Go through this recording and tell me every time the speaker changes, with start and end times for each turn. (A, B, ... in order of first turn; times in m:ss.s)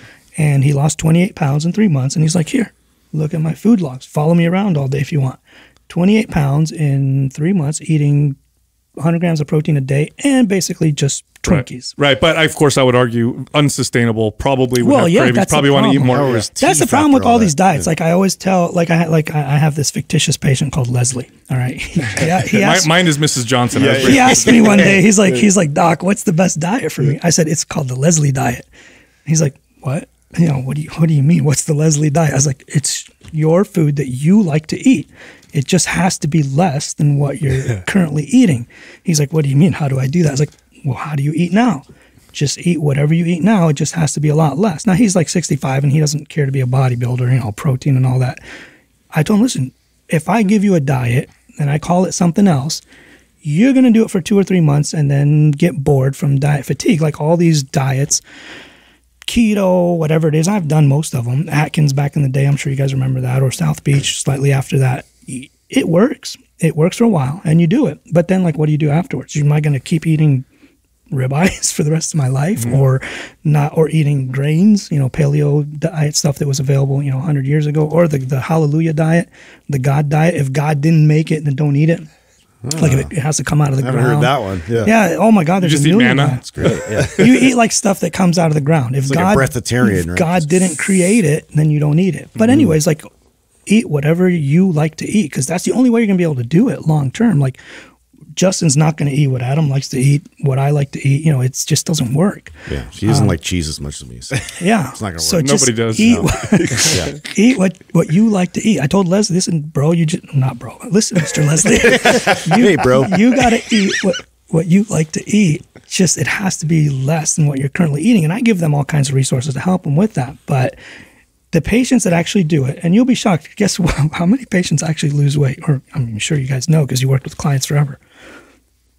0:00.4-0:08.4 A
0:09.0-0:11.9 A
0:11.4-0:16.5 B
0:14.8-0:22.9 A
0:16.0-0:17.9 C
0:22.1-0:25.0 B
0:23.8-0:24.9 C
0:23.9-0:28.7 A
0:29.2-0:48.4 A
0:49.1-0:52.8 A
0:53.4-0:58.2 A
0:59.2-1:10.4 A
1:11.1-1:22.1 A
1:12.6-1:12.8 B
1:22.6-1:23.1 C
1:22.8-1:33.1 A
1:23.8-1:24.9 C
1:25.6-1:26.8 B
1:26.6-1:27.5 C
1:29.0-1:30.6 C
1:32.4-1:32.6 B
1:33.6-1:37.6 A
1:38.4-1:43.4 A
1:42.7-1:47.1 C
1:44.6-2:00.8 A
1:45.4-1:47.1 B
1:51.8-1:53.4 C
2:01.5-2:08.0 A